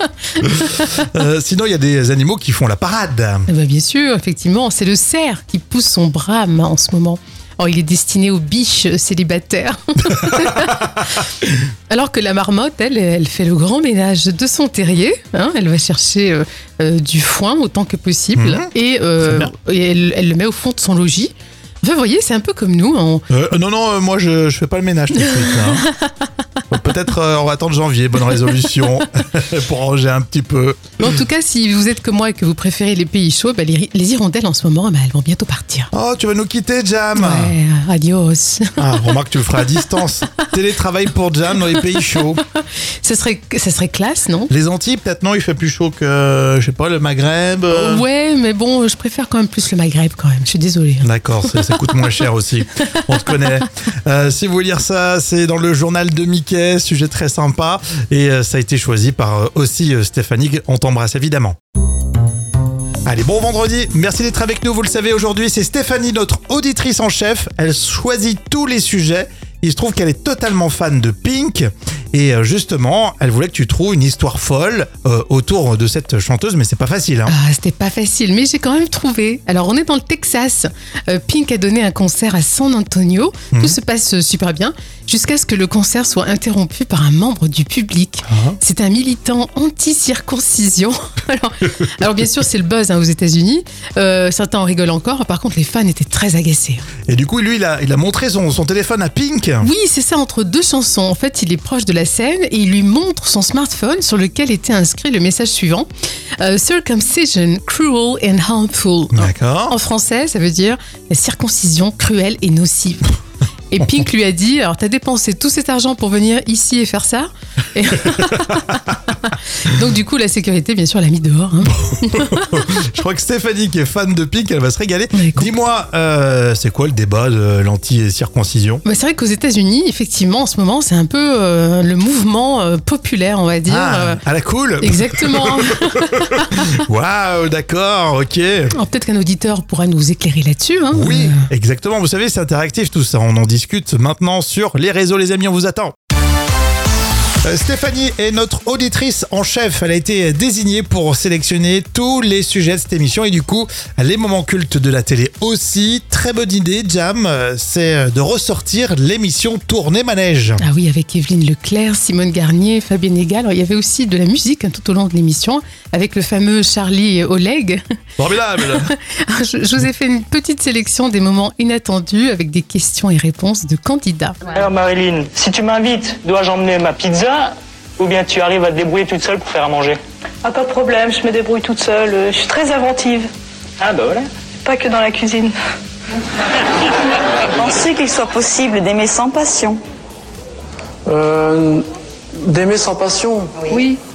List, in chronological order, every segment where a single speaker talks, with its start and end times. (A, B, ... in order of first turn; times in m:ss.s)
0:00.4-0:03.5 A
0:03.5-0:11.3 B
0:10.2-0:10.8 A
0:11.9-0:23.2 B
0:18.4-0:18.7 A
0:19.2-0:19.5 A
0:23.3-0:25.8 A
0:26.7-0:31.2 A
0:31.0-0:35.9 B
0:35.9-0:37.5 A
0:37.2-0:38.9 B
0:38.8-0:42.4 A
0:42.6-0:44.5 B
0:44.5-0:48.0 A
0:47.7-0:51.9 B
0:51.0-1:01.6 A
0:52.8-0:53.1 B
1:03.0-1:17.3 A
1:17.3-1:36.8 B
1:23.5-1:23.8 A
1:28.3-1:28.6 A
1:37.1-1:39.7 A
1:39.6-1:45.9 B
1:46.4-1:53.0 B
1:49.1-1:49.8 A
1:53.7-2:02.6 B
1:58.1-1:58.4 A
2:01.7-2:08.8 A
2:05.1-2:05.5 B
2:08.8-2:14.2 B
2:13.7-2:18.7 A
2:14.8-2:16.6 B
2:18.7-2:21.5 B
2:20.9-2:26.0 A
2:27.4-2:40.6 A
2:40.6-2:47.8 B
2:48.2-2:48.9 A
2:48.7-2:54.4 B
2:54.5-3:00.0 C
3:00.4-3:03.3 D
3:03.8-3:04.3 C
3:04.6-3:05.6 D
3:07.5-3:09.8 E
3:11.1-3:11.8 F
3:12.4-3:13.6 F
3:13.7-3:14.0 D